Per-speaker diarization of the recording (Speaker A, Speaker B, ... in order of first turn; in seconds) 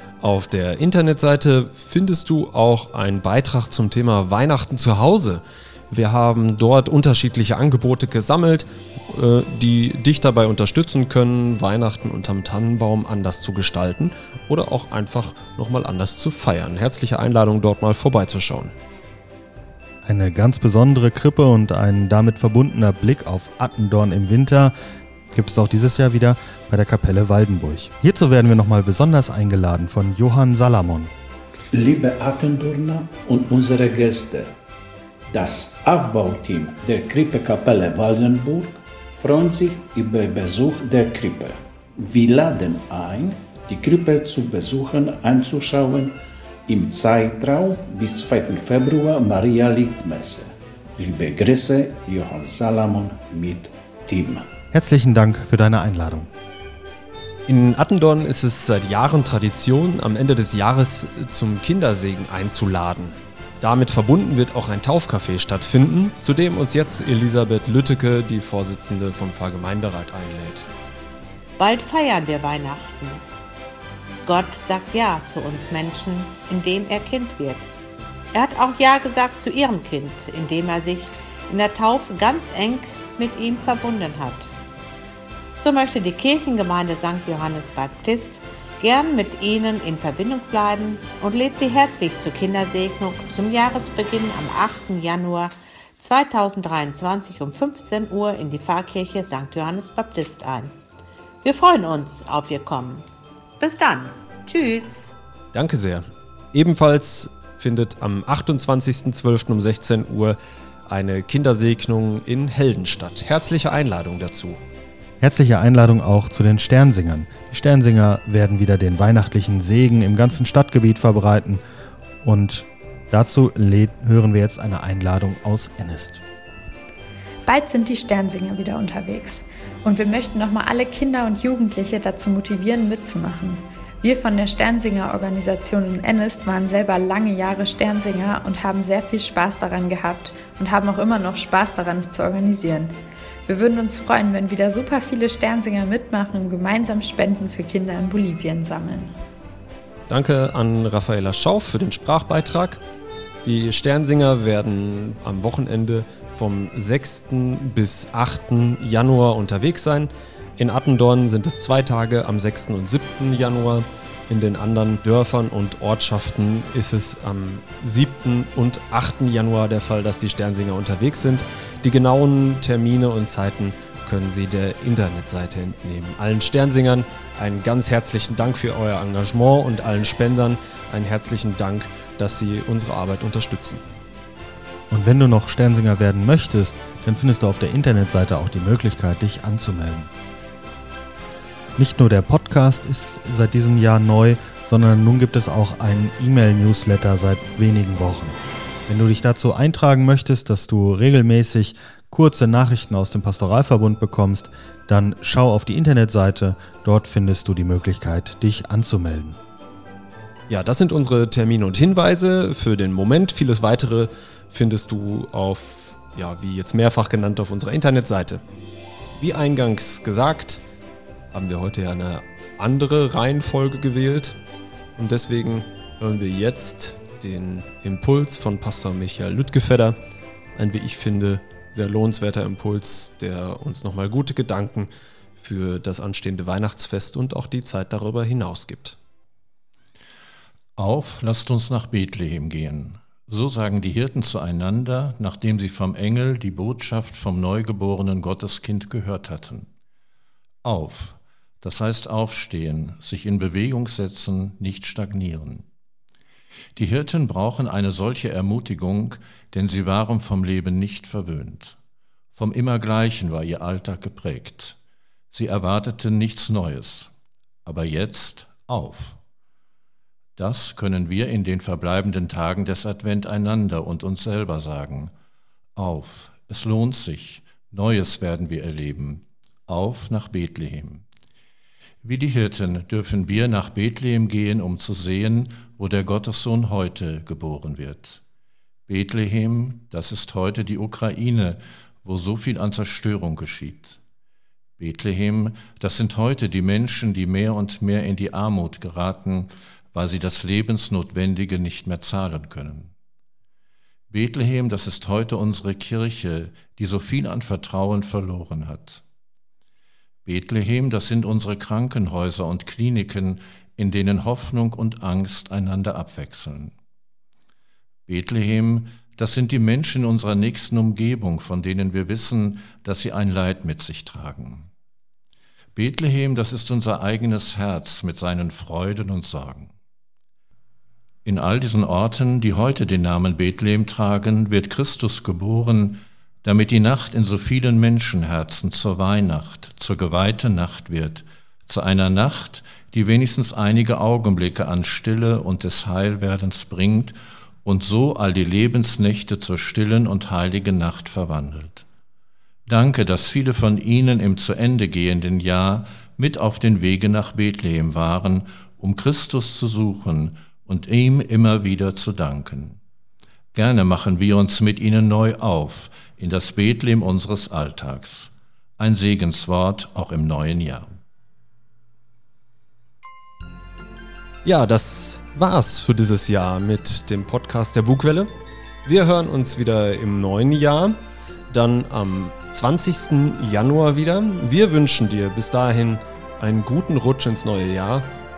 Speaker A: 0.2-18.8, 57.5-70.7, 105.5-110.4, 110.9-114.6, 150.1-152.8, 153.4-183.8, 210.5-218.4, 219.2-220.6, 221.3-224.4, 225.0-230.0, 230.6-239.0, 374.4-378.3, 378.9-388.1
Speaker B: 20.0-24.7, 25.3-31.1, 54.7-56.3, 115.2-121.6, 122.2-126.2, 184.9-190.1, 191.8-209.4
Speaker C: 31.7-34.5, 35.3-46.2, 46.7-54.5
Speaker D: 71.6-73.2, 74.2-77.7, 78.3-84.5, 85.6-100.8, 101.4-103.1, 103.6-105.2
Speaker E: 127.5-149.2
Speaker F: 240.8-249.7, 250.6-255.7, 256.8-261.8, 262.4-264.8, 265.3-267.1, 267.6-269.2, 270.4-275.1, 275.8-281.0, 282.0-288.2, 288.9-294.0, 294.8-302.9, 304.1-309.0, 310.2-316.7, 318.1-324.7, 325.8-329.7, 331.2-351.9, 352.7-362.8, 363.5-370.9